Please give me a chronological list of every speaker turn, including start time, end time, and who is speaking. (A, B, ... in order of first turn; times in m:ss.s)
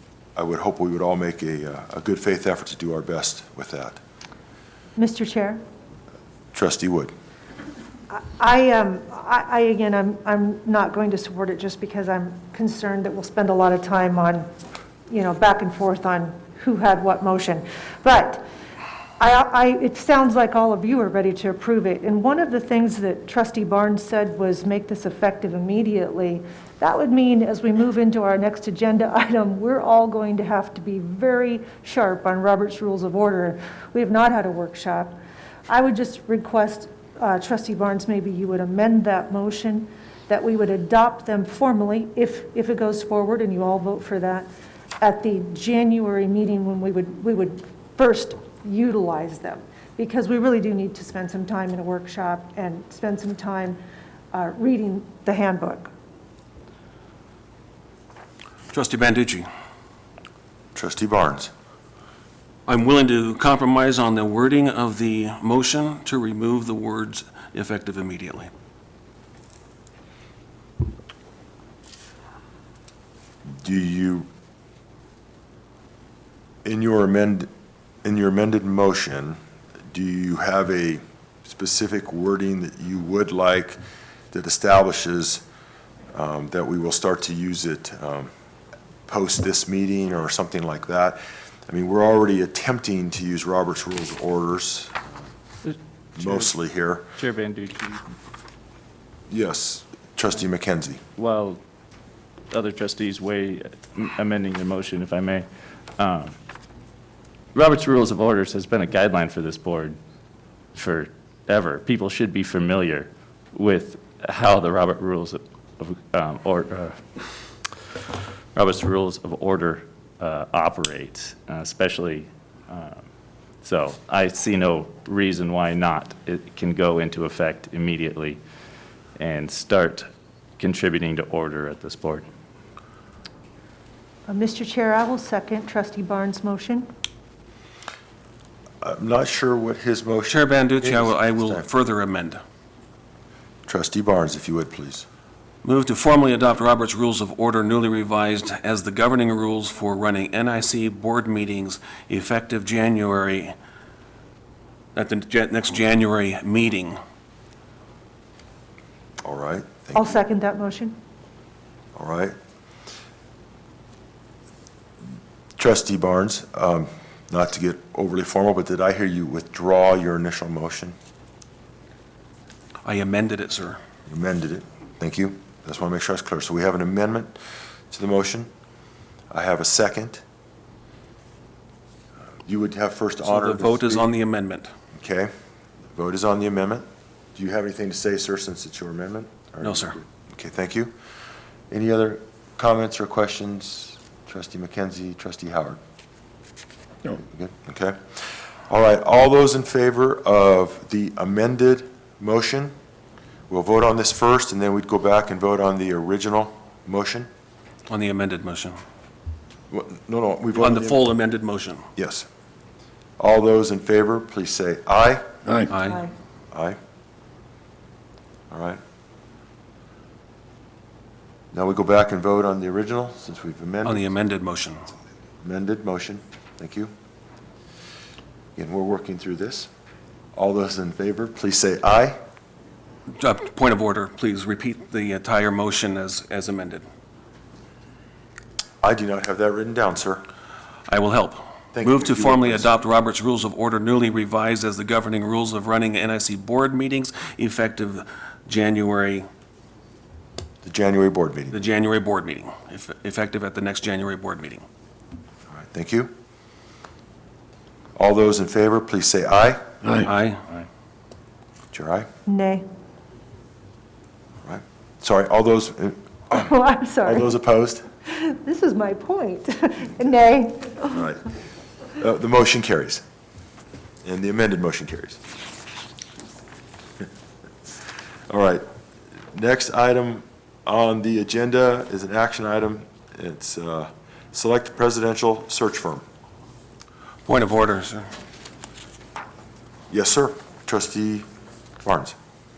0:00.4-0:04.0 A
0:05.0-0:05.6 B
0:06.5-0:07.1 A
0:08.1-0:14.5 B
0:15.1-0:18.4 B
0:19.2-0:35.2 B
0:35.7-0:53.8 B
0:54.3-0:55.9 B
0:58.7-0:59.5 C
1:00.7-1:01.5 A
1:02.7-1:08.5 C
1:13.6-1:14.3 A
1:16.6-1:17.5 A
1:18.0-1:19.4 A
1:19.9-1:23.8 A
1:24.3-1:25.4 A
1:26.1-1:28.3 A
1:29.1-1:35.0 A
1:36.2-1:37.1 A
1:37.2-1:38.1 D
1:39.3-1:41.0 A
1:41.2-1:41.6 D
1:42.5-1:45.4 D
1:46.0-1:46.4 D
1:47.5-1:50.0 D
1:50.7-1:57.0 D
1:58.5-2:03.0 D
2:03.6-2:08.4 D
2:09.2-2:10.1 D
2:10.6-2:12.3 D
2:14.3-2:16.9 B
2:18.8-2:21.6 A
2:20.3-2:22.4 C
2:23.6-2:25.0 A
2:25.6-2:33.5 C
2:34.9-2:37.0 C
2:39.2-2:40.2 A
2:39.9-2:41.0 B
2:42.0-2:42.4 A
2:45.6-2:51.0 A
2:52.8-2:53.8 C
2:54.1-2:57.3 A
2:57.9-2:58.5 A
2:59.3-3:00.2 A
3:02.4-3:04.0 A
3:03.2-3:04.7 C
3:04.9-3:05.3 A
3:05.9-3:10.9 A
3:09.6-3:10.0 C
3:11.7-3:15.8 A
3:17.2-3:18.0 A
3:18.7-3:22.7 A
3:23.5-3:27.3 A
3:27.9-3:28.8 C
3:29.7-3:31.0 A
3:30.6-3:31.8 C
3:32.0-3:32.3 A
3:33.2-3:35.3 A
3:35.7-3:36.0 C
3:35.8-3:36.1 B
3:36.5-3:36.8 A
3:38.5-3:38.8 A
3:41.5-3:44.0 A
3:43.8-3:44.8 C
3:45.4-3:46.9 A
3:48.6-3:49.7 A
3:50.3-3:52.2 A
3:53.1-3:56.8 C
3:58.8-4:00.2 A
4:00.9-4:09.3 C
4:01.7-4:02.7 A
4:10.6-4:11.6 A
4:11.5-4:14.6 C
4:15.5-4:16.1 A
4:18.0-4:19.6 A
4:20.0-4:20.4 C
4:21.7-4:22.1 A
4:22.2-4:22.6 B
4:24.4-4:26.5 A
4:26.3-4:27.3 B
4:27.0-4:27.8 A
4:28.0-4:30.9 B
4:30.9-4:31.2 A
4:32.0-4:33.0 A
4:34.0-4:35.2 A
4:38.3-4:38.6 A
4:39.3-4:46.0 A
4:47.2-4:48.1 C
4:49.9-4:51.3 A
4:51.8-4:52.2 A